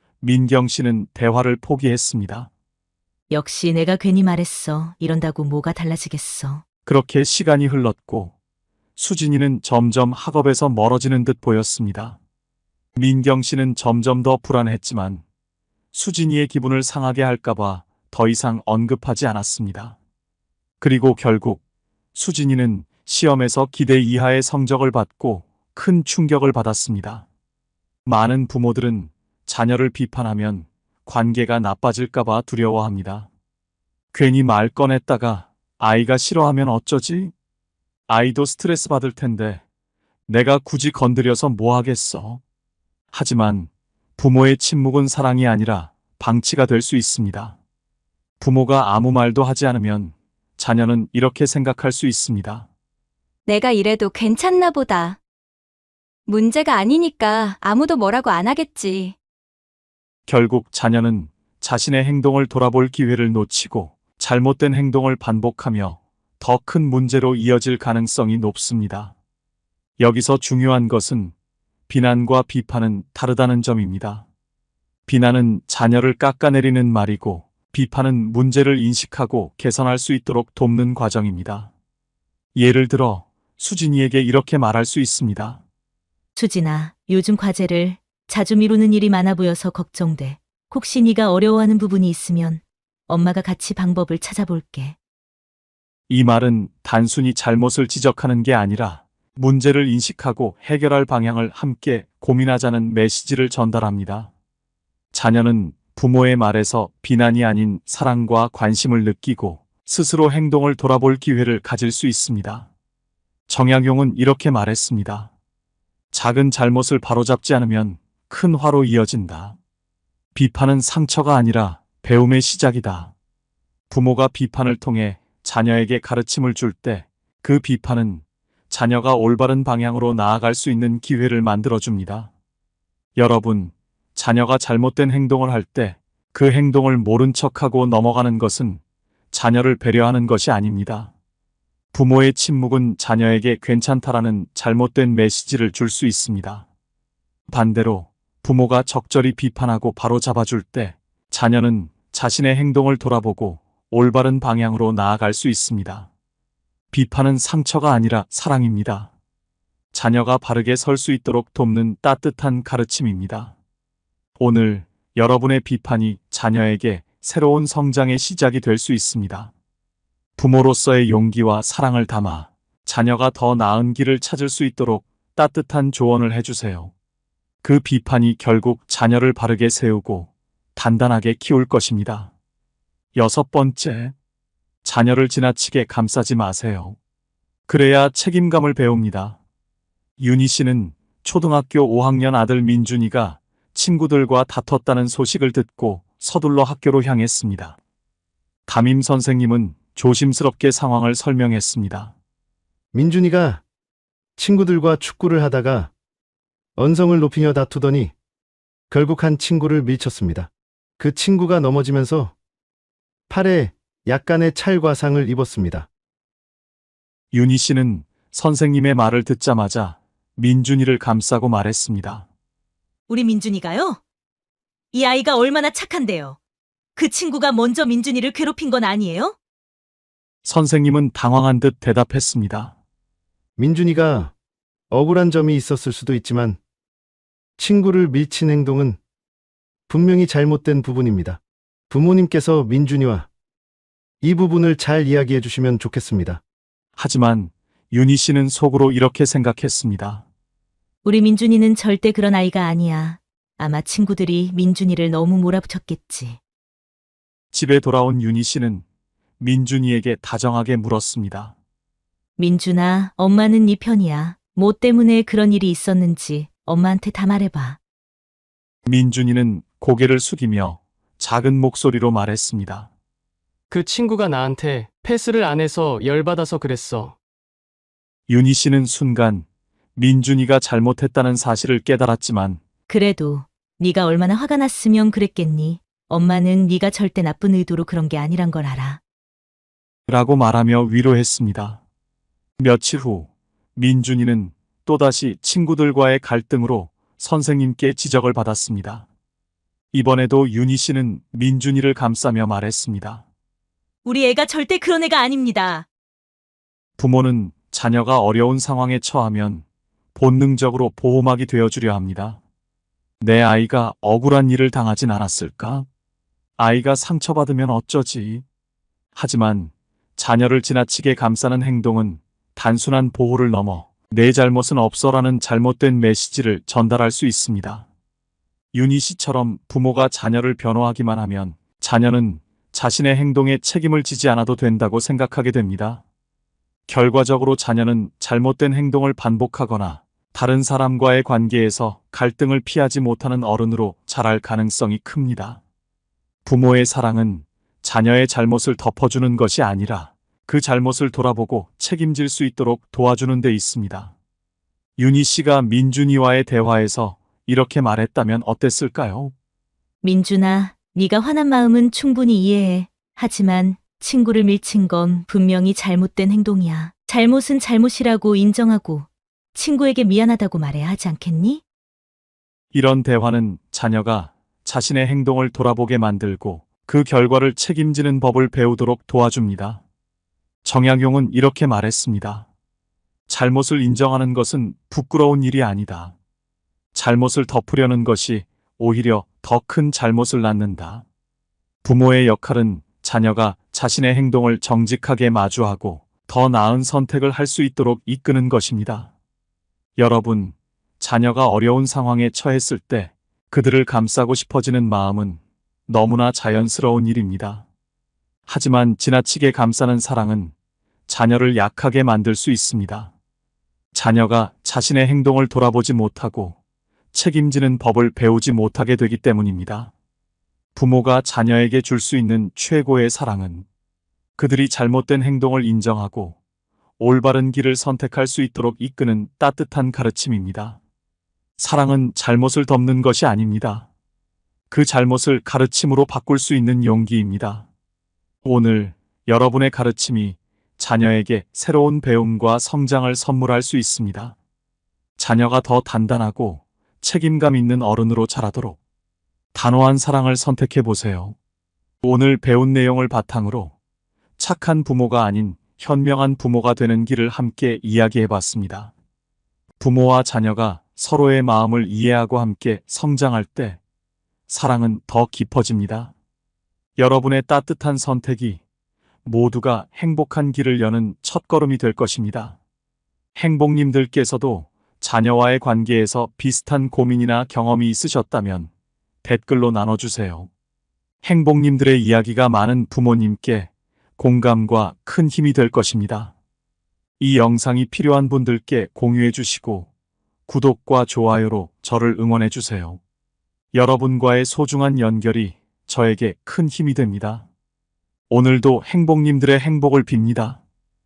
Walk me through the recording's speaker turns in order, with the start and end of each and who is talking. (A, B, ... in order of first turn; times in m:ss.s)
0:00.2-0:02.5 A
0:03.3-0:06.6 B
0:06.8-0:08.3 A
0:09.0-0:12.2 A
0:13.0-0:15.2 A
0:15.9-0:20.0 A
0:20.8-0:21.6 A
0:22.1-0:27.2 A
0:28.0-0:33.3 A
0:34.1-0:37.3 A
0:38.1-0:39.6 A
0:40.3-0:42.4 A
0:43.1-0:47.6 A
0:48.4-0:52.7 A
0:53.4-0:55.2 C
0:56.3-0:59.1 C
1:00.3-1:09.1 A
1:10.0-1:11.3 A
1:11.9-1:14.2 A
1:15.1-1:21.7 A
1:22.5-1:25.6 A
1:26.4-1:35.0 B
1:36.1-1:44.3 A
1:45.1-1:52.7 A
1:53.5-1:55.3 A
1:56.1-1:59.6 A
2:00.3-2:03.1 A
2:03.9-2:12.3 A
2:13.2-2:18.8 A
2:19.3-2:21.1 A
2:21.9-2:26.6 A
2:27.5-2:36.1 A
2:36.9-2:39.1 A
2:39.9-2:43.5 A
2:44.4-2:49.5 A
2:50.4-2:56.9 A
2:57.6-3:02.3 A
3:03.1-3:04.1 A
3:04.8-3:07.0 A
3:07.7-3:09.4 A
3:10.2-3:17.8 A
3:18.7-3:22.1 A
3:22.9-3:23.6 D
3:24.4-3:25.9 D
3:26.8-3:28.1 D
3:28.9-3:32.3 D
3:33.3-3:35.9 D
3:37.3-3:42.2 A
3:43.1-3:44.0 B
3:44.9-3:46.4 B
3:47.0-3:49.4 B
3:50.4-3:52.7 A
3:53.6-3:54.3 D
3:54.9-3:56.6 D
3:57.6-3:59.0 D
3:59.9-4:03.3 D
4:04.2-4:06.4 D
4:07.0-4:10.2 A
4:11.0-4:16.4 B
4:17.5-4:18.8 A
4:19.4-4:21.5 A
4:22.4-4:27.8 B
4:28.8-4:32.9 A
4:33.7-4:37.1 E
4:38.3-4:39.4 A
4:40.0-4:42.6 A
4:42.9-4:49.0 B
4:50.1-4:51.8 A
4:52.6-4:59.0 A
4:59.9-5:03.2 A
5:04.0-5:05.8 B
5:07.0-5:09.6 A
5:10.2-5:12.4 A
5:13.2-5:15.8 A
5:16.6-5:18.4 A
5:19.1-5:27.8 A
5:28.7-5:36.0 A
5:36.9-5:45.6 A
5:46.4-5:54.1 A
5:55.0-5:59.3 A
6:00.0-6:11.6 B
6:12.7-6:19.8 A
6:20.6-6:22.5 A
6:23.3-6:26.1 A
6:26.9-6:31.0 A
6:31.8-6:39.1 A
6:40.0-6:47.6 A
6:48.5-6:50.5 A
6:51.1-6:53.1 A
6:53.9-6:56.6 A
6:57.1-6:59.9 A
7:00.7-7:03.6 A
7:04.4-7:06.4 A
7:07.0-7:10.8 A
7:11.6-7:13.9 A
7:14.7-7:17.7 A
7:18.4-7:24.4 A
7:25.2-7:28.8 A
7:29.5-7:31.4 A
7:32.0-7:33.7 A
7:34.4-7:38.9 A
7:39.8-7:43.8 A
7:44.5-7:46.1 A
7:47.0-7:48.6 A
7:49.2-7:52.6 A
7:53.4-7:58.7 A
7:59.2-8:00.5 A
8:01.2-8:06.3 A
8:07.2-8:09.9 A
8:10.5-8:13.0 A
8:13.7-8:17.4 A
8:18.3-8:20.6 A